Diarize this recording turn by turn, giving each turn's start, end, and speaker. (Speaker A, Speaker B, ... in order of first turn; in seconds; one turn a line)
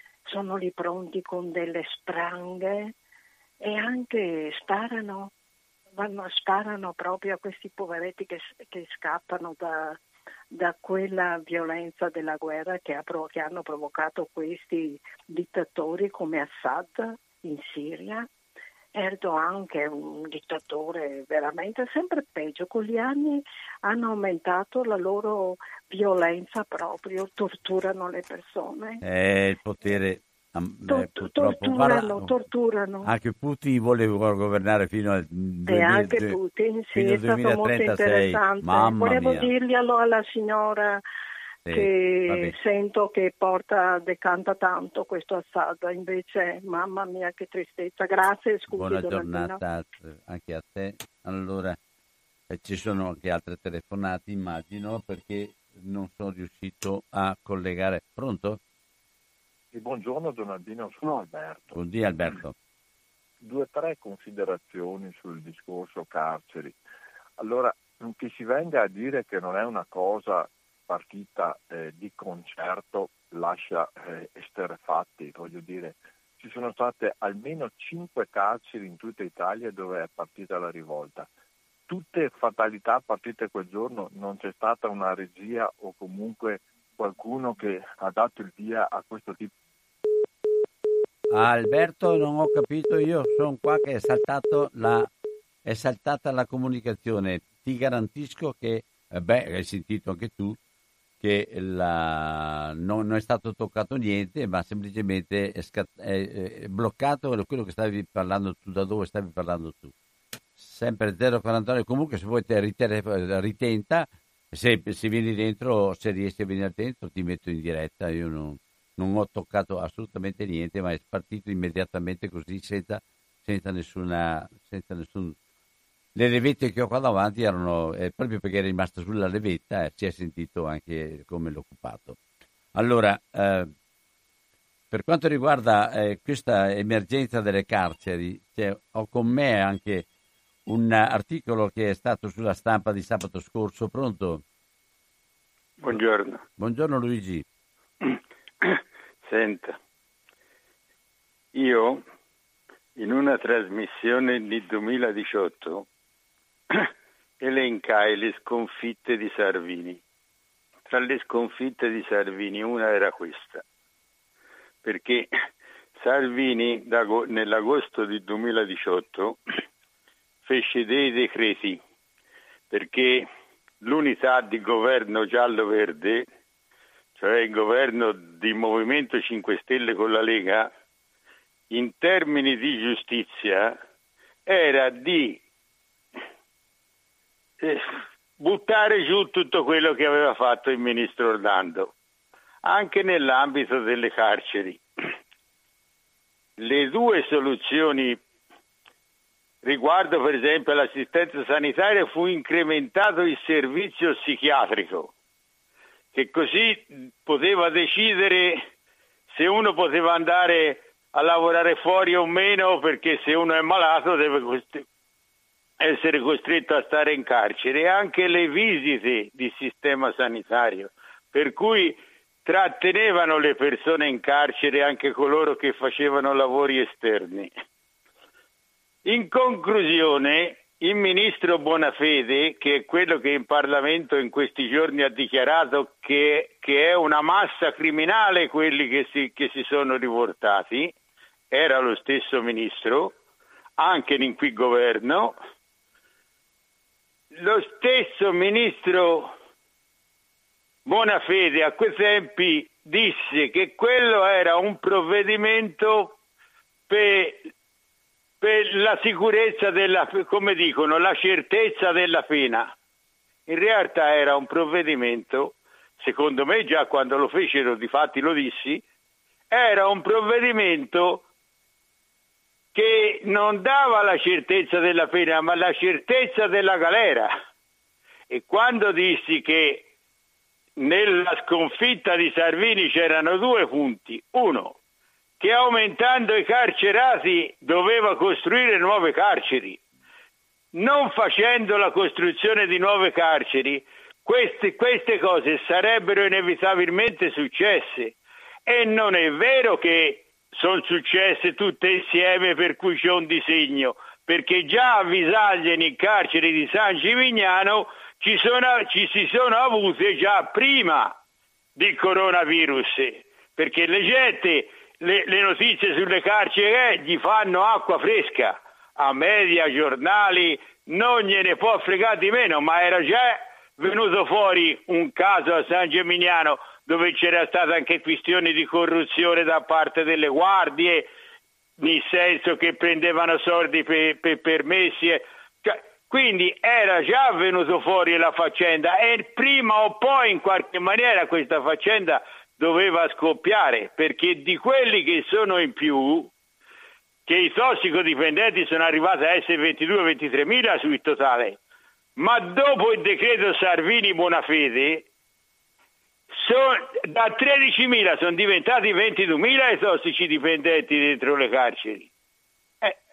Speaker A: 0.2-2.9
Speaker A: 3.6-5.3
Speaker A: 6.0-10.0
Speaker A: 10.5-18.3
Speaker A: 18.9-29.0
Speaker B: 29.0-32.4
Speaker A: 30.9-33.1
Speaker B: 33.0-36.4
Speaker A: 35.7-41.0
Speaker B: 36.9-39.5
Speaker B: 41.6-42.5
Speaker A: 41.7-49.6
Speaker B: 48.7-51.8
Speaker B: 52.5-58.6
Speaker C: 59.7-61.8
Speaker B: 61.7-62.5
Speaker C: 63.4-66.8
Speaker C: 67.4-81.3
Speaker C: 81.9-89.5
Speaker B: 91.3-95.1
Speaker B: 95.6-100.6
Speaker B: 101.2-109.9
Speaker B: 110.6-125.3
Speaker B: 126.1-132.2
Speaker B: 132.7-133.7
Speaker B: 134.9-140.1
Speaker B: 140.7-144.4
Speaker D: 145.8-146.4
Speaker B: 146.6-147.4
Speaker D: 148.0-149.8
Speaker D: 151.5-152.0
Speaker D: 152.9-155.8
Speaker D: 156.7-160.0
Speaker D: 160.9-163.6
Speaker D: 164.8-165.3
Speaker D: 165.9-169.4
Speaker D: 170.4-171.8
Speaker D: 172.7-173.2
Speaker D: 173.8-176.3
Speaker D: 177.2-180.7
Speaker D: 181.7-183.8
Speaker D: 184.5-185.4
Speaker D: 187.6-187.9
Speaker D: 188.4-191.9
Speaker D: 192.6-194.8
Speaker D: 196.6-198.2
Speaker D: 199.6-205.1
Speaker D: 206.1-208.6
Speaker D: 209.3-214.8
Speaker D: 215.8-227.5
Speaker D: 229.0-240.9
Speaker D: 241.5-243.1
Speaker D: 243.8-245.3
Speaker D: 247.3-249.3
Speaker D: 250.8-256.2
Speaker D: 256.9-257.5
Speaker D: 258.4-262.7
Speaker D: 263.5-268.8
Speaker D: 269.5-271.2
Speaker D: 272.7-277.3
Speaker D: 278.3-279.9
Speaker D: 280.8-284.7
Speaker D: 285.4-289.8
Speaker D: 290.7-311.1
Speaker D: 311.8-331.1
Speaker D: 331.8-346.3
Speaker D: 347.2-351.6
Speaker D: 352.2-355.0
Speaker D: 356.3-362.1